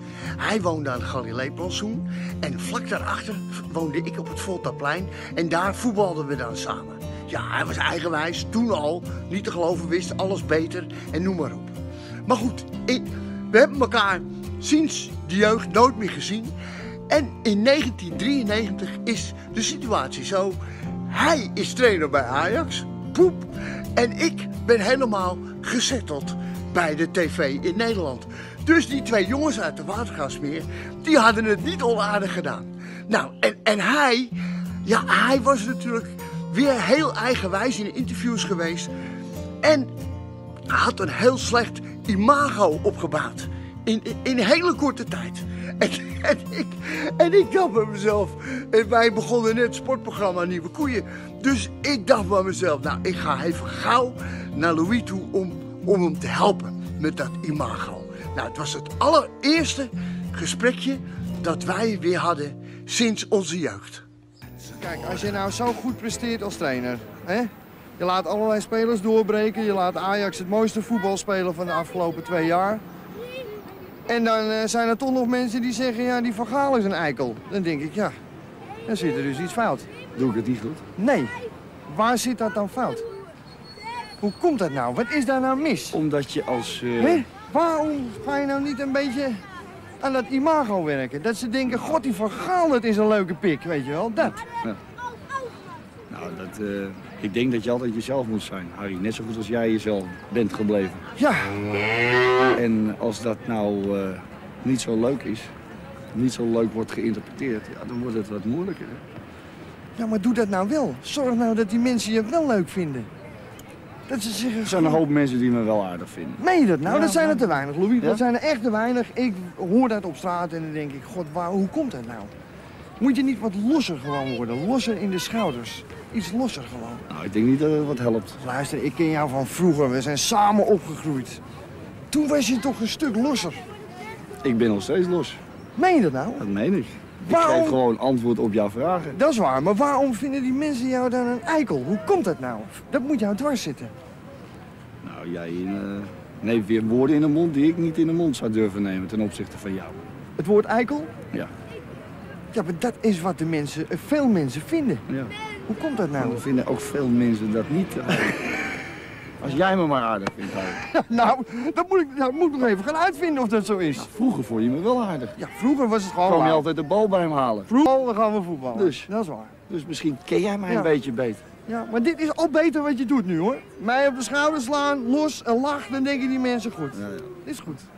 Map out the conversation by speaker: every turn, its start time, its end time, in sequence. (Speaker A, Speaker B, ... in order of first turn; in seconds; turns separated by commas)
Speaker A: 0.3-11.7, Speaker A: 12.2-16.5, Speaker A: 17.1-34.3, Speaker A: 34.8-38.9, Speaker A: 39.6-39.9, Speaker A: 40.7-64.0, Speaker B: 51.4-51.7, Speaker B: 64.7-72.8, Speaker B: 74.1-78.1, Speaker B: 78.8-79.9, Speaker C: 80.2-80.8, Speaker B: 81.0-81.3, Speaker B: 81.9-83.1, Speaker B: 84.2-86.0, Speaker C: 85.9-87.2, Speaker B: 87.0-89.4, Speaker B: 90.0-94.4, Speaker C: 94.2-94.8, Speaker C: 96.1-101.0, Speaker B: 101.2-101.6, Speaker C: 102.5-105.5, Speaker C: 106.1-109.0, Speaker B: 110.0-113.1, Speaker B: 114.1-115.0, Speaker C: 114.6-118.2, Speaker B: 116.4-122.3, Speaker B: 123.0-127.0, Speaker C: 127.1-128.4, Speaker B: 128.4-131.4, Speaker B: 132.1-133.6, Speaker C: 134.4-135.4, Speaker B: 135.8-136.4, Speaker C: 136.4-139.2, Speaker B: 137.2-137.8, Speaker B: 139.1-143.9, Speaker C: 145.0-150.0, Speaker B: 150.4-151.1, Speaker B: 152.5-155.0, Speaker C: 155.1-155.3, Speaker B: 155.7-156.4, Speaker C: 156.2-158.8, Speaker C: 159.4-160.8, Speaker B: 160.8-164.1, Speaker C: 163.9-165.3, Speaker B: 165.4-166.6, Speaker C: 166.2-167.7, Speaker B: 167.7-169.5, Speaker C: 168.7-169.1, Speaker C: 169.7-171.4, Speaker B: 171.7-177.8, Speaker C: 176.9-177.3